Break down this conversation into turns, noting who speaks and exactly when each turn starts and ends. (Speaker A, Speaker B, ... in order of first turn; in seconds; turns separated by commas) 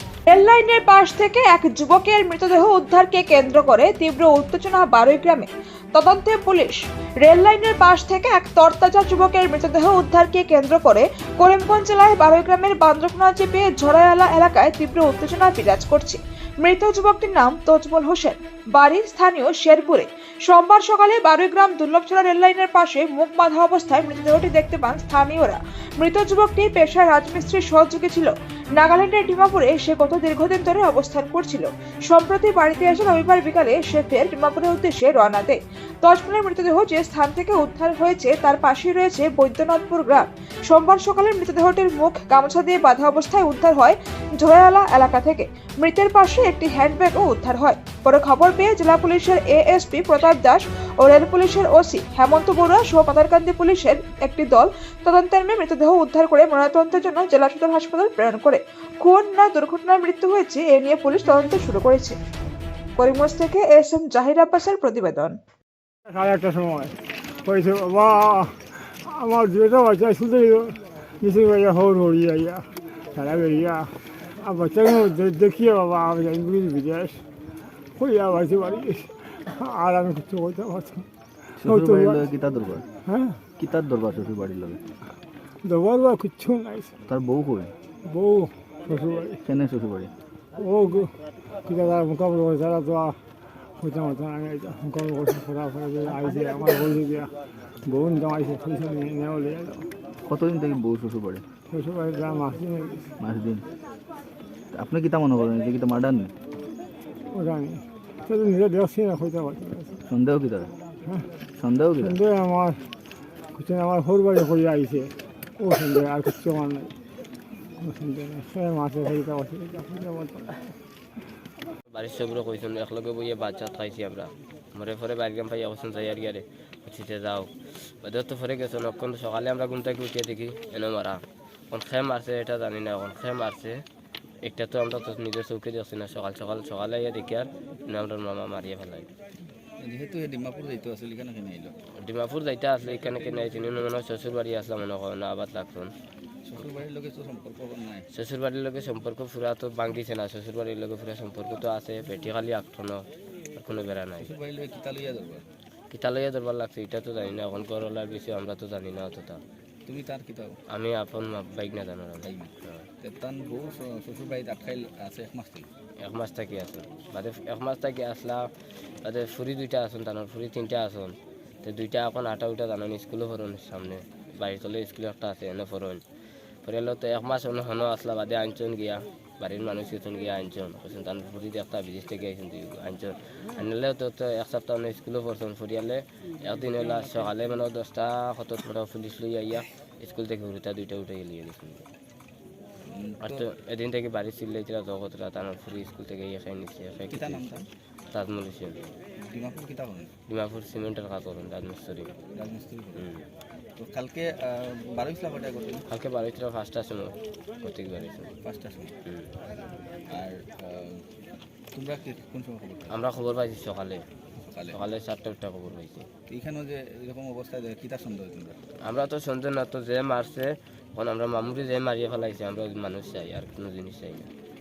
Speaker A: 0.3-62.2, Speaker A: 63.0-65.4, Speaker B: 66.1-77.2, Speaker B: 78.0-81.1, Speaker C: 81.6-82.8, Speaker B: 81.6-82.2, Speaker B: 83.1-83.4, Speaker C: 83.6-84.8, Speaker B: 85.6-86.9, Speaker C: 87.0-87.7, Speaker B: 88.0-89.4, Speaker C: 89.4-90.1, Speaker B: 90.6-93.2, Speaker B: 93.8-97.3, Speaker B: 97.8-99.9, Speaker C: 100.2-101.4, Speaker B: 101.7-103.1, Speaker C: 103.2-103.7, Speaker C: 104.7-106.3, Speaker B: 107.3-110.0, Speaker C: 110.1-110.7, Speaker C: 111.5-112.2, Speaker B: 112.0-112.8, Speaker B: 113.5-116.9, Speaker B: 117.8-120.6, Speaker D: 121.9-133.8, Speaker D: 134.4-139.1, Speaker C: 139.8-141.7, Speaker D: 142.0-145.9, Speaker C: 146.4-148.1, Speaker D: 148.1-154.3, Speaker C: 154.2-155.4, Speaker D: 155.9-159.4, Speaker C: 159.8-160.6, Speaker D: 160.7-162.8, Speaker C: 162.2-165.7, Speaker D: 166.0-168.5, Speaker D: 169.0-176.0, Speaker D: 176.6-191.9, Speaker C: 192.8-193.4, Speaker D: 193.2-197.5, Speaker C: 197.1-197.7, Speaker D: 198.1-198.8, Speaker C: 199.2-200.1, Speaker D: 200.3-202.1, Speaker C: 202.3-203.0, Speaker D: 203.0-203.3, Speaker C: 203.8-205.8, Speaker D: 205.9-208.3, Speaker C: 208.4-208.9, Speaker C: 210.1-211.0, Speaker C: 211.7-212.9, Speaker D: 212.9-214.1, Speaker C: 214.4-214.8, Speaker D: 214.7-216.1, Speaker C: 216.3-218.6, Speaker D: 218.8-224.3